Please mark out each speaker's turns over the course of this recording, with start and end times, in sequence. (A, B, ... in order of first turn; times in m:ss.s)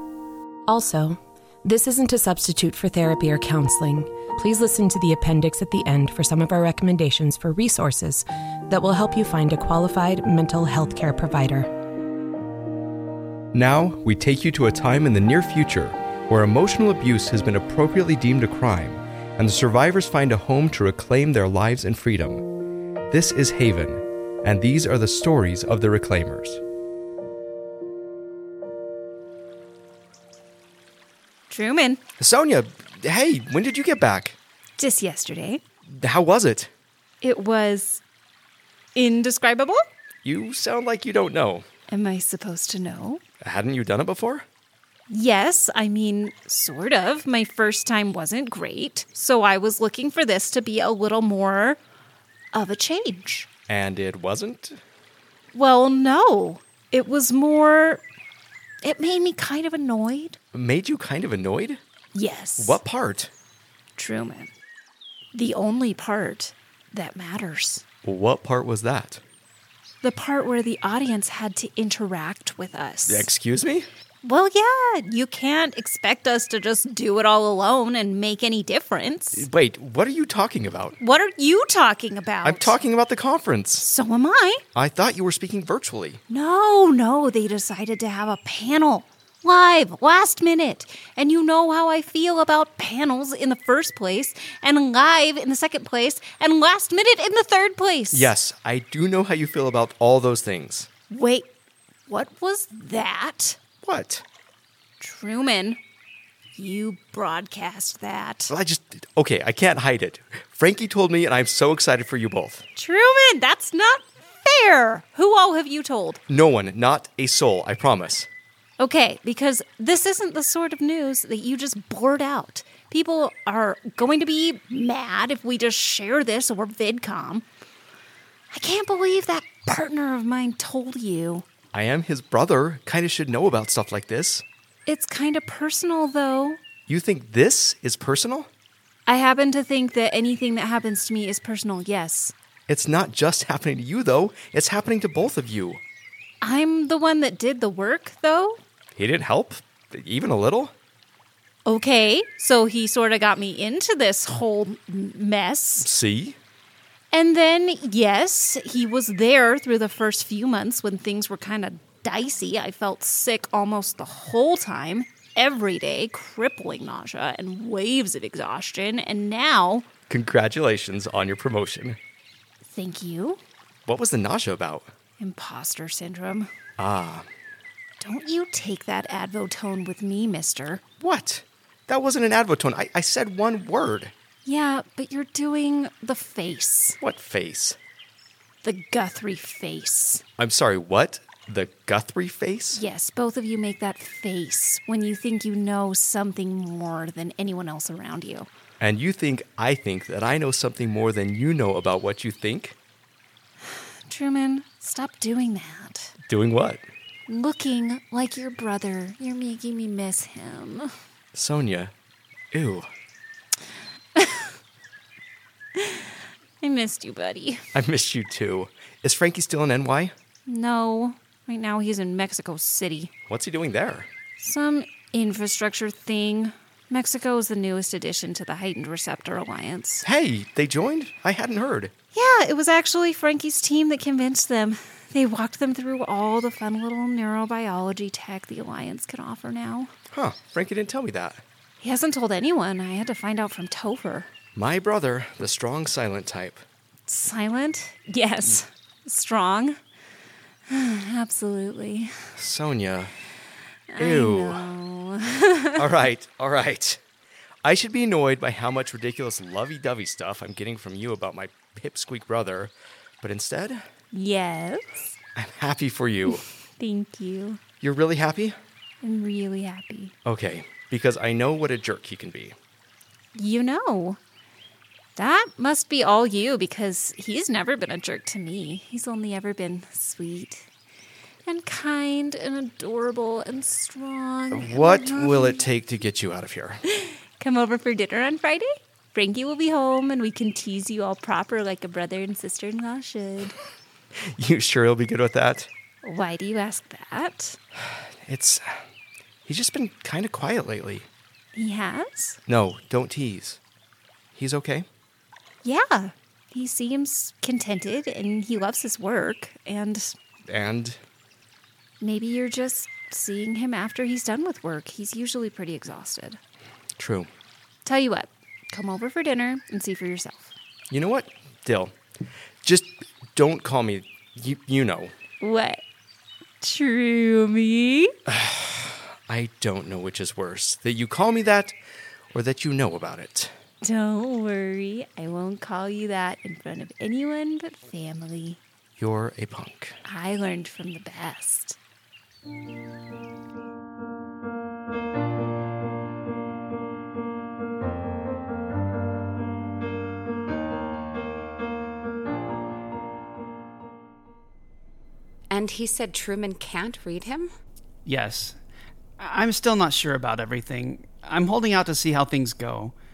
0:00.7-0:11.7 A
0:13.5-0:22.4 B
0:23.1-0:26.6 B
0:31.5-0:32.0 C
0:32.2-0:34.4 B
0:34.8-0:35.6 C
0:35.9-0:36.7 B
0:37.2-0:38.0 C
0:39.0-0:39.8 C
0:40.2-0:41.6 B
0:41.9-0:43.2 C
0:43.4-0:44.4 B
0:45.1-0:51.8 C
0:52.5-0:53.5 C
0:53.7-0:54.8 B
0:55.5-0:58.0 C
0:58.8-1:00.4 C
1:00.5-1:01.8 B
1:02.2-1:02.8 C
1:02.6-1:03.3 B
1:04.0-1:04.5 C
1:05.3-1:07.8 C
1:08.0-1:09.2 B
1:10.0-1:13.3 C
1:13.1-1:13.9 B
1:14.2-1:19.5 C
1:19.3-1:21.0 B
1:21.0-1:22.8 C
1:22.4-1:23.9 B
1:23.8-1:24.6 C
1:24.8-1:26.2 B
1:26.3-1:38.3 C
1:38.1-1:40.9 B
1:41.1-1:41.5 C
1:42.1-1:43.6 C
1:43.8-1:44.2 B
1:45.0-1:45.8 C
1:46.6-1:48.5 C
1:48.5-1:52.6 B
1:52.8-1:56.2 C
1:56.3-1:58.3 B
1:58.8-2:07.4 C
2:08.5-2:11.5 C
2:11.7-2:14.4 B
2:14.9-2:16.6 C
2:16.9-2:18.5 B
2:19.1-2:22.3 C
2:22.7-2:25.8 B
2:26.4-2:28.6 C
2:29.0-2:30.7 B
2:31.7-2:35.9 C
2:35.8-2:36.4 B
2:37.1-2:49.9 C
2:50.1-2:52.0 B
2:52.6-2:53.4 C
2:53.9-2:54.9 B
2:55.2-2:56.5 C
2:56.8-2:57.3 B
2:58.0-3:00.8 C
3:01.0-3:04.1 B
3:04.4-3:07.0 C
3:07.0-3:07.8 B
3:08.6-3:10.2 C
3:10.4-3:12.8 B
3:12.7-3:18.5 C
3:18.8-3:22.8 B
3:23.6-3:26.1 C
3:26.3-3:26.8 B
3:27.3-3:30.9 C
3:31.3-3:31.9 B
3:32.5-3:32.9 B
3:34.2-3:34.5 C
3:35.8-3:37.7 C
3:37.7-3:40.1 B
3:40.5-3:43.1 C
3:43.3-3:44.1 B
3:44.4-3:50.1 C
3:50.0-3:51.9 B
3:52.1-3:59.9 C
4:00.1-4:01.4 B
4:01.8-4:04.3 C
4:04.6-4:06.6 B
4:07.1-4:09.8 C
4:10.7-4:12.2 C
4:12.4-4:13.1 B
4:13.9-4:15.9 C
4:14.0-4:14.7 B
4:15.8-4:17.0 B
4:17.6-4:23.8 B
4:24.1-4:25.1 C
4:25.4-4:26.4 B
4:26.8-4:27.6 C
4:27.8-4:28.6 B
4:29.0-4:30.1 C
4:30.2-4:32.6 B
4:33.4-4:34.2 C
4:35.2-4:40.7 C
4:41.4-4:45.7 C
4:44.5-4:46.8 B
4:46.9-4:53.6 C
4:54.4-4:55.7 B
4:56.0-4:57.6 C
4:57.8-4:58.8 B
4:59.4-5:01.1 B
5:01.6-5:02.4 C
5:02.5-5:03.6 B
5:04.3-5:04.9 B
5:05.6-5:10.2 C
5:10.5-5:11.0 B
5:12.0-5:16.4 C
5:17.0-5:17.3 B
5:17.8-5:20.5 C
5:20.9-5:22.0 B
5:22.6-5:25.1 B
5:25.4-5:25.8 C
5:26.6-5:28.1 C
5:28.3-5:31.8 B
5:32.3-5:33.5 B
5:33.8-5:38.6 C
5:39.0-5:40.0 B
5:40.1-5:41.8 C
5:55.5-5:57.5 D
5:58.1-5:58.6 E
5:59.2-6:02.9 E